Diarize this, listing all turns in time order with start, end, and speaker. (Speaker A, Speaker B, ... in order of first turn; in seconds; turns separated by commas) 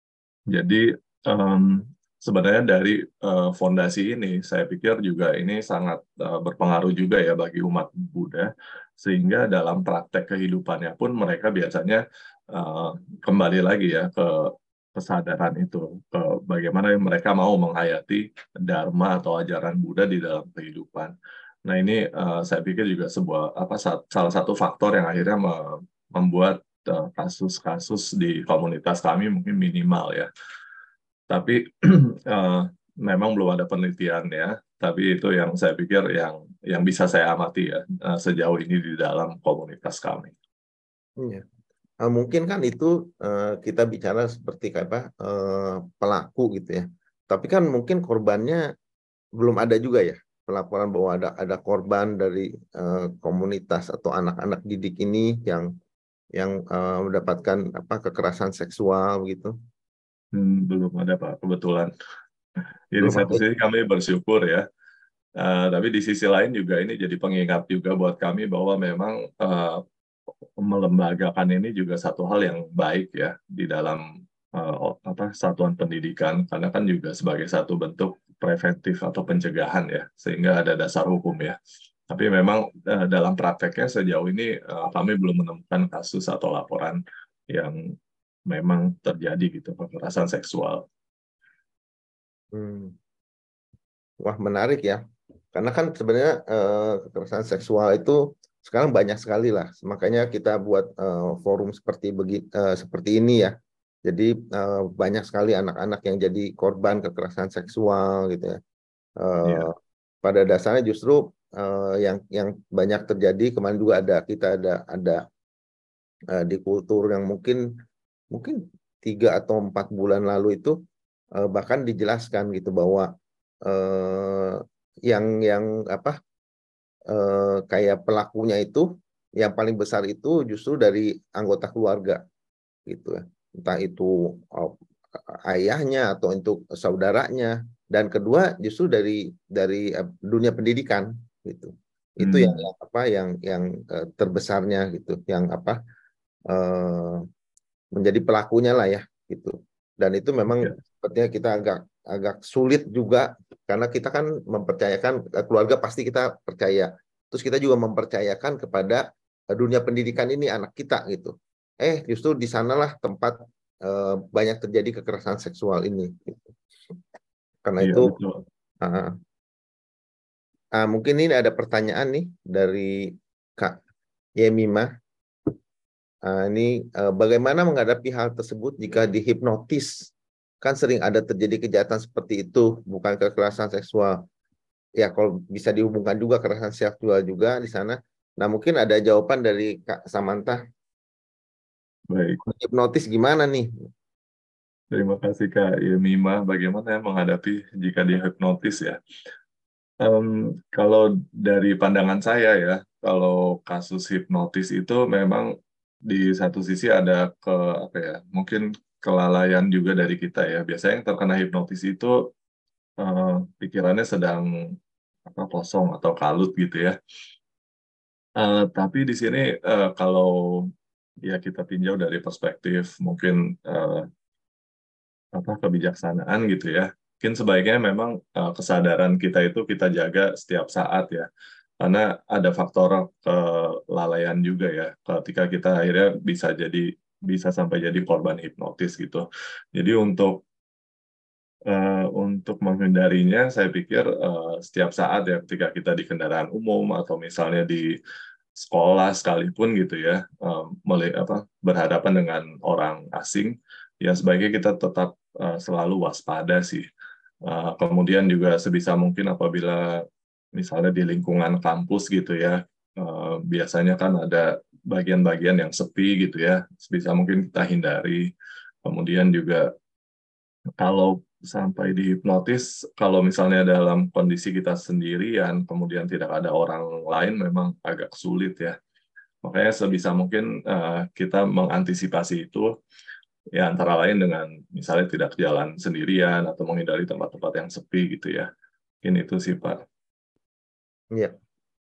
Speaker A: 0.5-8.5, Speaker A: 9.0-21.1, Speaker A: 21.7-30.3, Speaker A: 31.3-40.3, Speaker B: 42.0-48.6, Speaker B: 49.4-55.7, Speaker B: 56.4-59.5, Speaker A: 60.3-61.9, Speaker A: 62.9-64.6, Speaker B: 63.0-63.4, Speaker A: 65.4-69.8, Speaker A: 70.6-74.0, Speaker A: 74.6-81.6, Speaker A: 82.1-87.0, Speaker A: 87.5-87.8, Speaker A: 88.5-90.8, Speaker B: 92.5-93.0, Speaker B: 94.2-95.0, Speaker B: 95.5-103.5, Speaker B: 104.0-108.6, Speaker B: 109.2-115.2, Speaker B: 116.3-117.6, Speaker B: 118.3-120.8, Speaker B: 121.4-123.1, Speaker B: 123.7-126.2, Speaker B: 127.1-128.9, Speaker B: 129.4-132.2, Speaker B: 132.9-134.8, Speaker B: 135.3-145.8, Speaker A: 142.2-142.7, Speaker B: 146.5-147.2, Speaker B: 147.9-166.5, Speaker B: 167.7-168.1, Speaker A: 167.8-168.4, Speaker B: 168.8-169.2, Speaker B: 170.8-173.8, Speaker B: 174.4-174.9, Speaker B: 176.2-184.2, Speaker B: 185.0-190.6, Speaker A: 192.1-192.4, Speaker B: 192.4-193.7, Speaker A: 194.9-199.0, Speaker A: 200.0-205.5, Speaker A: 206.1-212.1, Speaker A: 213.0-214.5, Speaker A: 215.3-216.9, Speaker A: 218.4-220.7, Speaker A: 221.2-224.1, Speaker A: 225.4-231.3, Speaker A: 231.8-240.4, Speaker A: 241.7-247.9, Speaker A: 248.6-256.9, Speaker A: 257.4-259.9, Speaker A: 260.6-268.3, Speaker A: 268.9-269.7, Speaker A: 270.8-278.8, Speaker A: 279.4-282.7, Speaker A: 283.6-288.5, Speaker A: 289.0-289.8